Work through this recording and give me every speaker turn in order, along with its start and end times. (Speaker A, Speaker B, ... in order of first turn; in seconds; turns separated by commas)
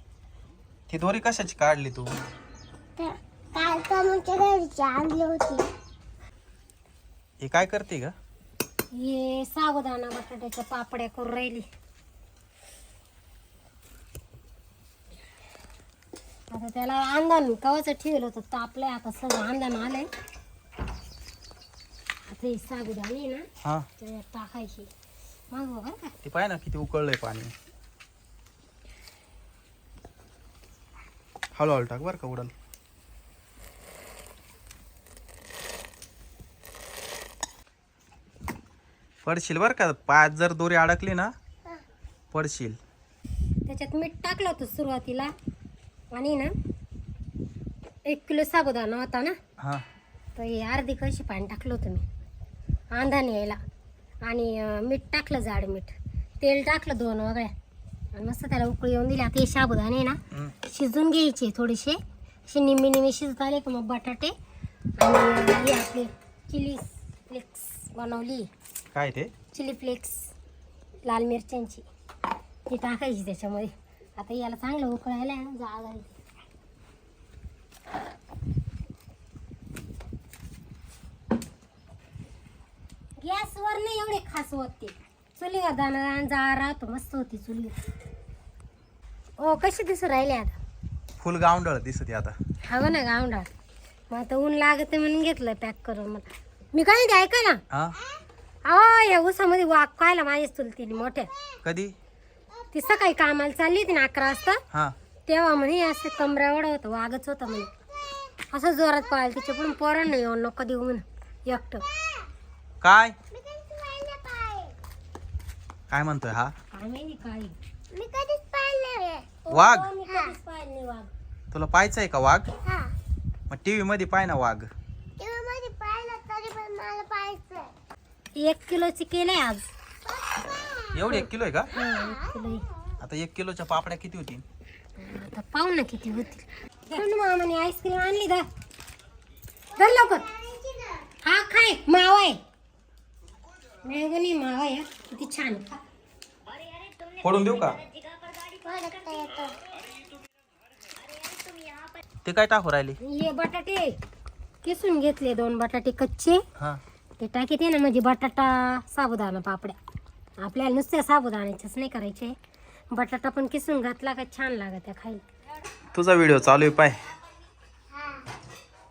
Speaker A: 0.9-2.1, Speaker B: 3.0-5.6, Speaker A: 7.4-8.1, Speaker C: 8.9-11.6, Speaker C: 16.5-20.1, Speaker C: 22.3-23.4, Speaker C: 24.0-24.9, Speaker C: 25.5-26.1, Speaker A: 26.2-27.5, Speaker A: 31.5-32.5, Speaker A: 39.2-41.3, Speaker A: 42.3-42.8, Speaker C: 43.6-45.3, Speaker C: 46.1-46.5, Speaker C: 48.0-49.4, Speaker C: 50.4-52.0, Speaker C: 52.9-53.6, Speaker C: 54.2-57.5, Speaker C: 58.1-64.3, Speaker C: 65.0-68.5, Speaker A: 68.9-69.3, Speaker C: 69.5-70.3, Speaker C: 71.0-71.8, Speaker C: 72.7-76.2, Speaker C: 83.2-87.8, Speaker C: 89.4-90.6, Speaker A: 91.2-92.3, Speaker C: 92.7-93.5, Speaker C: 94.1-97.6, Speaker C: 98.6-101.3, Speaker A: 101.6-101.9, Speaker C: 102.7-104.6, Speaker C: 105.3-107.7, Speaker C: 108.5-111.8, Speaker B: 111.9-112.2, Speaker A: 112.8-113.2, Speaker B: 113.3-114.7, Speaker A: 115.9-116.5, Speaker C: 116.7-117.5, Speaker B: 117.9-119.2, Speaker C: 119.5-121.1, Speaker A: 119.5-119.9, Speaker B: 120.1-120.3, Speaker A: 121.5-122.5, Speaker B: 122.7-122.9, Speaker A: 123.5-124.7, Speaker B: 125.2-127.7, Speaker C: 128.3-129.7, Speaker B: 130.2-131.1, Speaker A: 130.9-131.7, Speaker C: 131.7-132.6, Speaker B: 131.8-132.3, Speaker A: 133.0-134.4, Speaker C: 135.0-138.4, Speaker C: 139.8-140.2, Speaker B: 139.8-141.1, Speaker C: 141.2-142.4, Speaker C: 143.8-145.8, Speaker A: 147.2-147.8, Speaker B: 148.6-149.6, Speaker A: 152.2-153.0, Speaker C: 153.0-153.9, Speaker C: 154.6-156.4, Speaker C: 157.2-159.8, Speaker C: 160.4-162.3, Speaker C: 162.9-165.2, Speaker A: 165.9-167.0, Speaker B: 167.9-168.2